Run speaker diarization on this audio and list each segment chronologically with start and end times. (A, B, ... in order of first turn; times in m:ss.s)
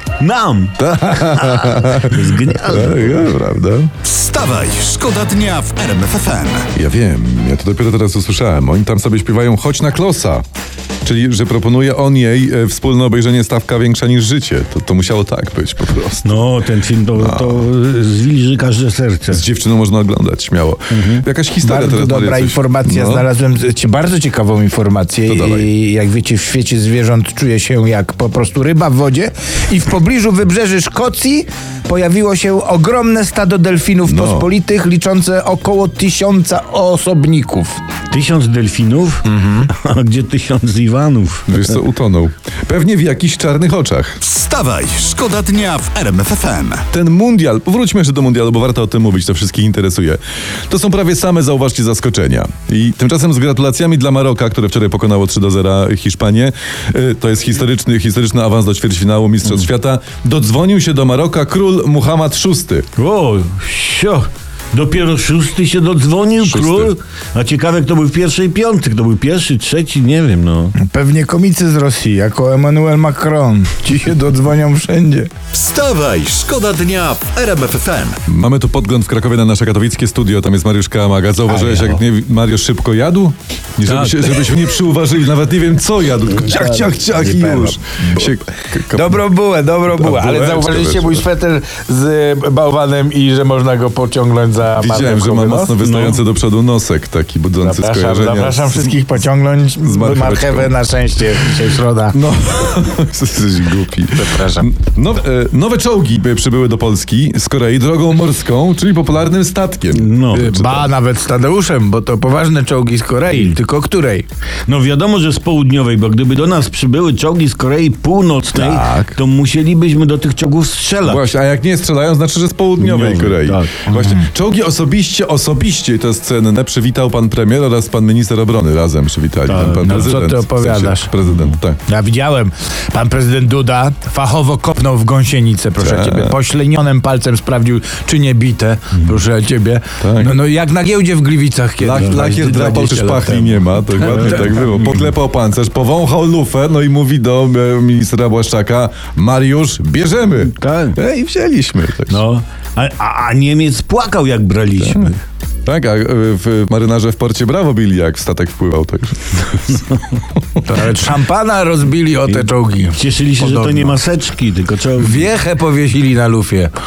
0:00.2-0:03.3 A
0:00.8-0:03.9 B
0:04.0-0:06.7 C
0:06.7-0:10.4 B
0:11.0-0:16.4 B
0:16.2-0:19.4 A
0:17.2-0:17.7 B
0:19.3-0:23.3 B
0:20.9-0:21.2 A
0:21.6-0:37.8 D
0:25.2-0:25.7 B
0:34.0-0:34.5 B
0:38.1-0:41.8 A
0:41.5-0:44.2 B
0:44.2-0:46.8 C
0:46.9-1:02.8 B
1:03.0-1:10.7 A
1:06.4-1:06.9 B
1:10.8-1:15.3 D
1:15.5-1:18.2 C
1:18.2-1:29.2 B
1:21.6-1:21.8 D
1:23.9-1:24.2 A
1:26.6-1:28.2 D
1:28.9-1:35.8 D
1:29.9-1:31.2 B
1:34.8-1:38.9 B
1:35.8-1:36.2 A
1:37.6-1:42.2 D
1:39.8-1:40.8 B
1:42.1-1:50.9 B
1:44.1-1:44.6 D
1:49.9-1:50.5 A
1:50.3-1:54.2 D
1:54.7-2:01.2 A
1:58.5-1:59.2 B
2:01.0-2:11.8 B
2:02.8-2:03.9 A
2:03.9-2:04.2 D
2:09.5-2:10.1 A
2:09.6-2:11.1 D
2:11.9-2:24.6 D
2:15.8-2:16.4 B
2:20.0-2:20.4 B
2:21.8-2:32.2 B
2:24.0-2:25.0 A
2:30.6-2:31.0 A
2:32.1-2:35.2 A
2:35.6-2:39.8 B
2:40.6-2:44.0 D
2:42.3-2:45.3 A
2:45.0-2:46.7 D